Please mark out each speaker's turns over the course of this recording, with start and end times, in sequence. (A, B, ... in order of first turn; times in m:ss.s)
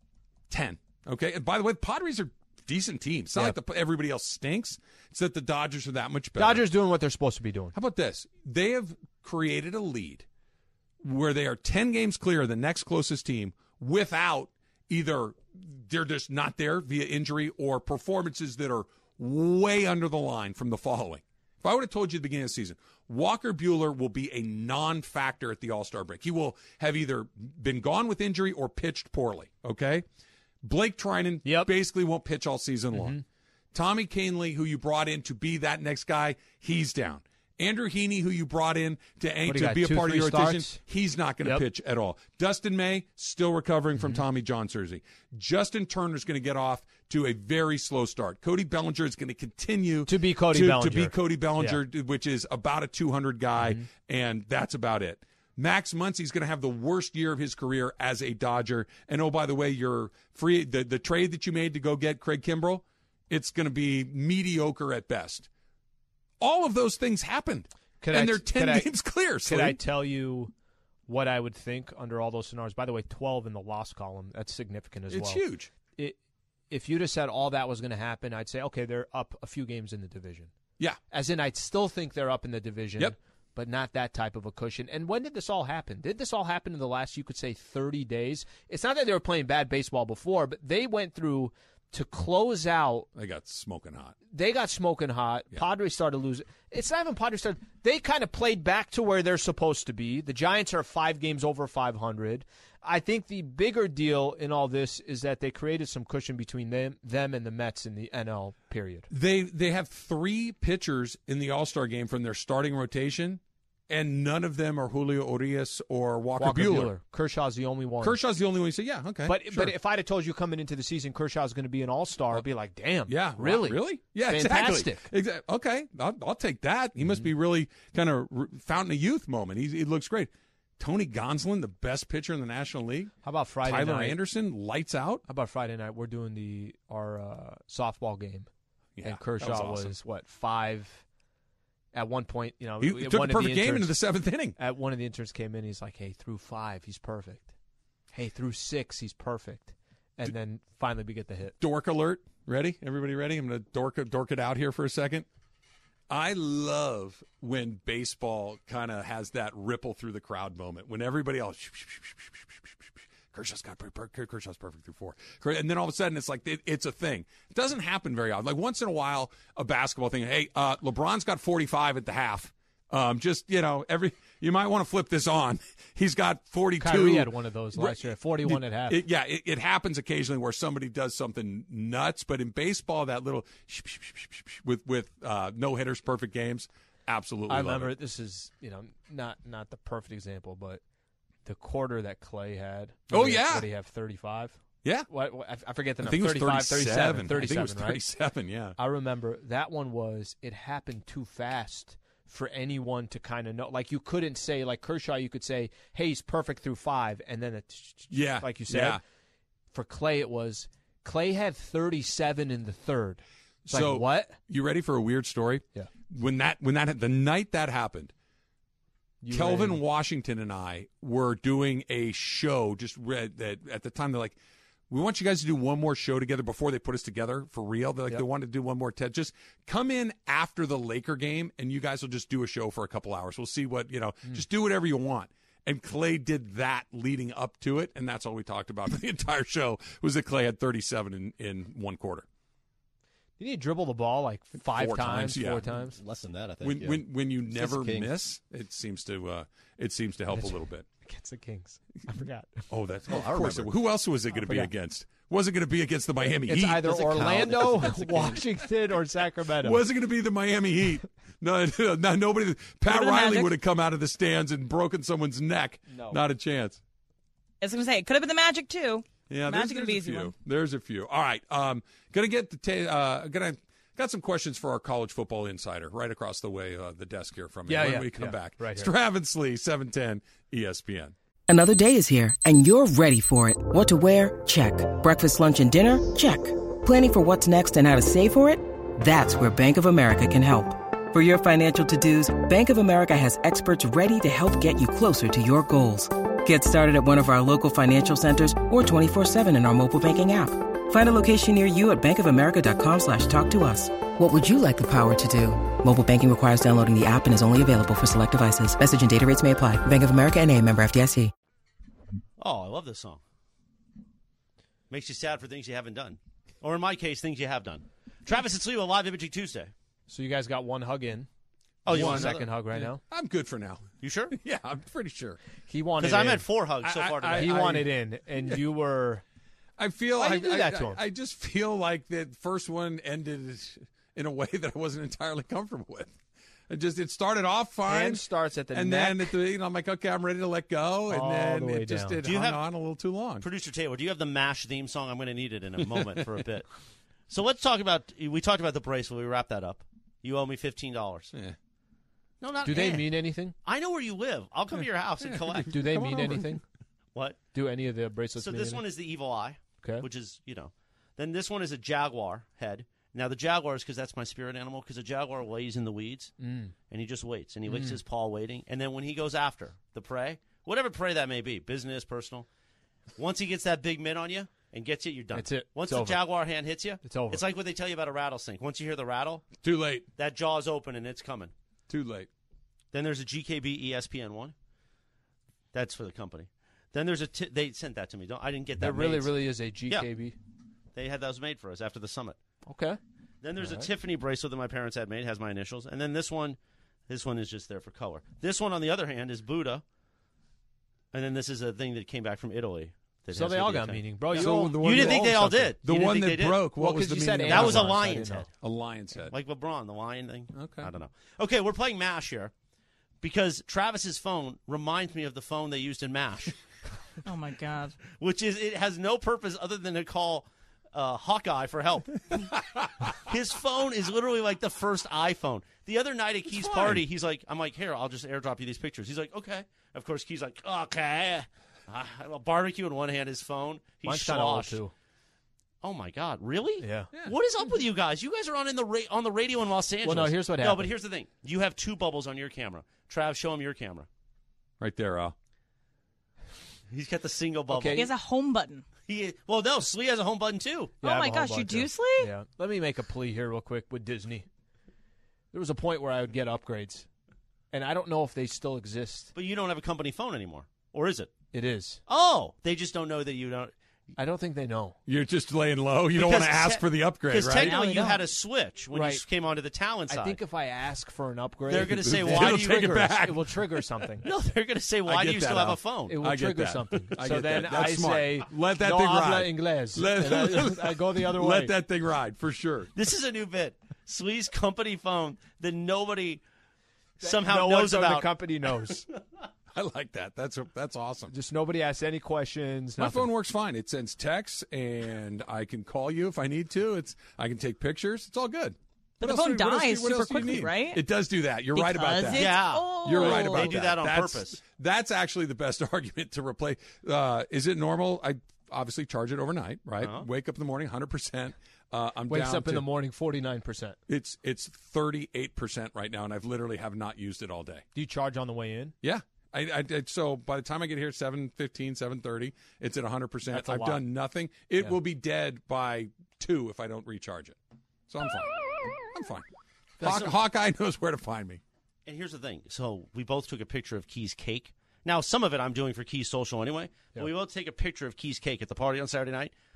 0:00.5-0:06.7 A
0:06.4-0:07.8 B
0:07.7-0:10.2 A
0:11.0-0:30.0 A
0:30.6-0:33.2 A
0:31.4-0:31.7 B
0:32.9-0:33.2 B
0:33.7-1:05.5 A
0:39.4-0:40.8 B
0:44.0-0:44.2 B
0:50.1-0:51.8 B
0:53.6-0:53.9 B
1:06.4-1:09.8 A
1:08.0-1:10.5 B
1:11.1-1:15.4 B
1:15.1-1:15.7 A
1:16.7-1:20.5 B
1:21.1-1:33.1 B
1:33.2-1:34.2 A
1:34.3-1:49.1 B
1:49.1-1:57.0 A
1:56.4-1:58.2 B
1:58.0-1:59.7 A
1:59.3-2:05.1 B
2:03.1-2:13.1 A
2:07.0-2:07.3 B
2:13.2-2:14.2 B
2:13.6-2:15.2 A
2:15.3-2:18.5 B
2:19.0-2:20.0 A
2:19.0-2:21.0 B
2:21.9-2:24.0 B
2:22.8-2:24.6 A
2:24.6-2:27.5 B
2:28.1-2:31.6 B
2:31.6-2:35.3 A
2:36.1-3:08.0 A
2:56.8-2:59.0 B
3:07.5-3:10.8 B
3:11.4-3:18.0 B
3:13.1-3:13.7 A
3:16.0-3:18.8 A
3:18.8-3:29.0 B
3:28.1-3:29.0 A
3:29.7-3:34.4 B
3:33.7-3:38.1 A
3:39.2-3:39.8 B
3:39.3-3:44.4 A
3:44.9-4:02.3 A
4:03.4-4:06.0 B
4:04.6-4:05.7 A
4:05.9-4:08.2 C
4:06.6-4:10.9 A
4:10.3-4:12.6 B
4:12.7-4:18.5 A
4:14.4-4:14.7 B
4:16.2-4:19.8 B
4:19.6-4:26.8 A
4:22.8-4:23.6 D
4:25.9-4:26.2 B
4:27.6-4:30.3 D
4:29.3-4:41.1 A
4:37.7-4:38.9 B
4:41.5-5:11.3 E
5:12.4-5:13.2 F
5:14.9-5:19.7 F
5:20.1-5:21.3 B
5:21.8-5:22.5 F
5:21.9-5:23.0 B
5:21.9-5:25.4 A
5:24.0-5:24.4 F
5:25.7-5:26.4 B
5:26.0-5:27.8 F
5:26.8-5:27.9 A
5:27.3-5:29.2 B
5:29.8-5:36.1 A
5:30.2-5:31.0 B
5:36.7-5:43.5 A
5:37.9-5:39.4 B
5:41.1-5:42.2 B
5:42.2-5:42.6 F
5:43.4-5:46.7 F
5:47.3-5:51.3 F
5:52.4-5:53.1 F
5:52.6-5:53.6 B
5:53.6-5:55.7 F
5:55.2-5:56.5 A
5:55.7-5:56.6 B
5:57.5-5:58.8 B
5:58.4-6:06.3 F
6:06.4-6:06.7 B
6:06.9-6:12.5 F
6:07.7-6:08.0 B
6:13.2-6:19.5 F
6:15.3-6:16.2 B
6:17.0-6:17.4 B
6:19.6-6:20.1 A
6:20.2-6:21.5 F
6:21.9-6:22.3 A
6:22.9-6:24.5 F
6:25.7-6:29.4 F
6:28.8-6:30.4 B
6:31.0-6:32.4 F
6:32.7-6:33.0 B
6:33.4-6:36.6 F
6:33.6-6:33.9 B
6:37.1-6:39.8 F
6:41.1-6:46.7 F
6:43.3-6:45.7 B
6:44.3-6:48.0 A
6:46.8-6:48.5 B
6:47.5-6:48.5 F
6:48.6-6:49.3 A
6:49.3-6:52.5 F
6:50.5-6:50.9 A
6:53.2-6:56.6 F
6:57.2-6:58.0 D
6:58.1-7:14.8 F
7:06.7-7:07.0 A
7:14.0-7:14.9 B
7:15.8-7:24.1 F
7:16.8-7:17.1 B
7:20.0-7:20.9 B
7:24.8-7:25.4 A
7:26.9-7:28.1 F
7:27.7-7:28.1 B
7:27.9-7:28.8 D
7:29.1-7:31.0 F
7:31.0-7:32.3 D
7:31.0-7:34.5 B
7:35.5-7:37.1 B
7:37.7-7:39.3 B
7:39.4-7:41.3 F
7:41.5-7:42.0 B
7:42.1-7:43.7 F
7:44.2-7:45.0 B
7:45.1-7:47.8 A
7:46.1-7:50.4 F
7:47.6-7:48.2 B
7:47.8-7:48.1 D
7:48.9-7:49.2 B
7:50.1-7:54.3 B
7:51.7-7:53.0 F
7:51.7-7:53.6 A
7:54.2-7:56.2 F
7:55.1-8:02.9 A
7:56.1-8:01.8 B
8:03.0-8:06.4 F
8:07.2-8:08.3 F
8:07.2-8:09.0 B
8:09.7-8:11.3 A
8:11.3-8:13.3 B
8:13.0-8:32.9 A
8:19.2-8:21.0 D
8:21.7-8:23.8 D
8:22.3-8:24.6 F
8:30.0-8:30.3 F
8:32.3-8:34.0 B
8:34.1-8:37.8 A
8:38.0-8:39.0 B
8:39.0-8:47.6 A
8:43.5-8:44.0 B
8:48.1-8:49.5 A
8:50.0-8:51.6 A
8:52.1-8:59.5 F